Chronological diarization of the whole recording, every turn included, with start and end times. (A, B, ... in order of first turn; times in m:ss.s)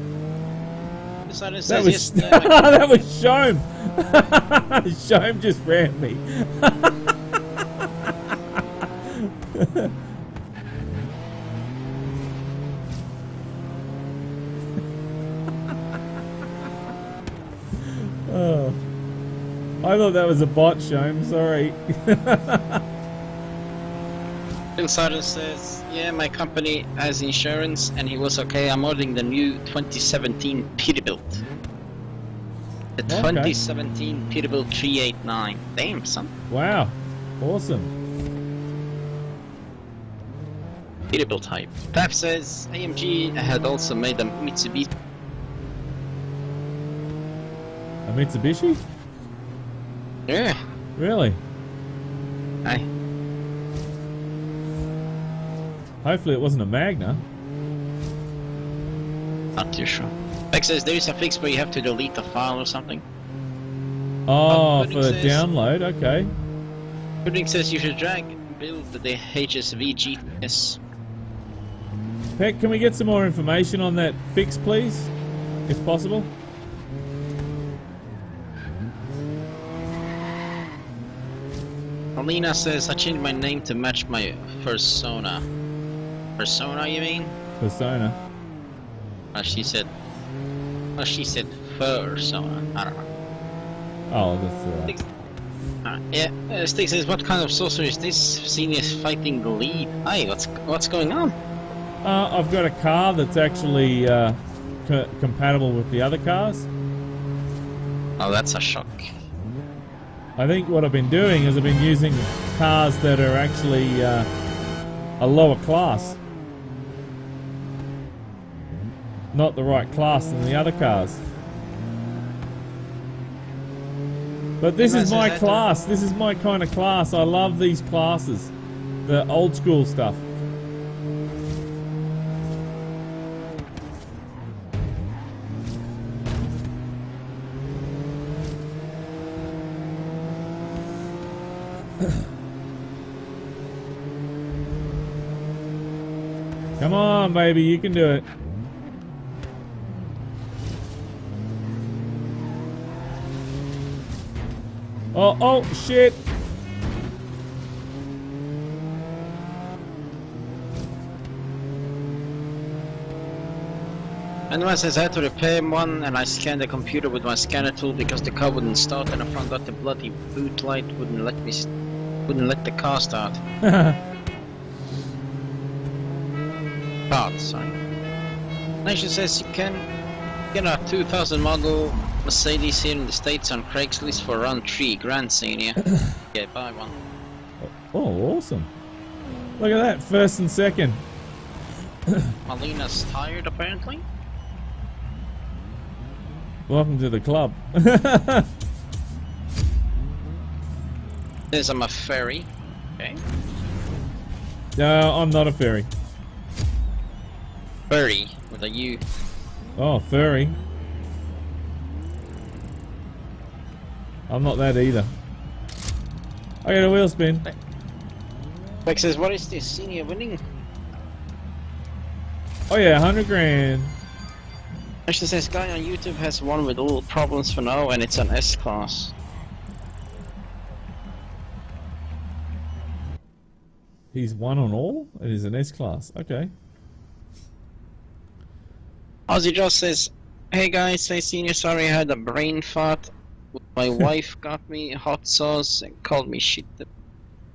0:01.3-0:02.7 A
0:01.7-0:07.1 B
0:08.8-0:09.9 B
0:17.8-0:18.8 B
0:19.8-0:22.8 B
0:24.8-0:31.4 A
0:33.0-0:36.3 A
0:33.1-0:33.6 B
0:36.5-0:37.9 B
0:41.1-0:44.9 A
0:48.0-0:48.8 B
0:50.3-0:50.6 A
0:51.0-0:51.4 B
0:56.0-0:57.2 B
0:59.6-1:03.0 A
1:04.3-1:06.3 B
1:04.5-1:05.4 A
1:07.2-1:10.8 A
1:12.4-1:15.1 B
1:15.7-1:16.3 B
1:22.2-1:25.4 A
1:26.4-1:27.3 A
1:27.6-1:28.2 B
1:29.3-1:29.9 A
1:31.0-1:33.1 A
1:34.1-1:35.0 B
1:35.8-1:41.3 A
1:42.0-1:46.7 B
1:48.2-1:49.0 A
1:50.4-1:54.3 B
1:55.2-1:56.2 B
1:59.3-2:01.2 B
2:04.6-2:08.5 B
2:04.8-2:05.6 A
2:09.0-2:10.2 B
2:26.8-2:28.3 B
2:35.1-2:36.2 B
2:44.5-2:51.7 A
2:52.3-2:53.4 A
2:53.6-2:54.0 B
2:57.1-2:57.8 A
2:58.8-2:59.9 A
3:00.5-3:07.0 A
3:07.6-3:08.7 B
3:09.6-3:11.0 B
3:12.1-3:12.3 B
3:12.5-3:14.0 A
3:16.7-3:18.5 B
3:21.5-3:23.2 A
3:24.8-3:25.9 B
3:27.9-3:29.0 A
3:29.8-3:30.6 B
3:34.3-3:35.1 B
3:36.6-3:37.4 B
3:38.8-3:40.4 A
3:42.7-3:43.9 B
3:45.1-3:49.1 A
3:54.1-3:56.5 B
3:59.3-4:06.9 A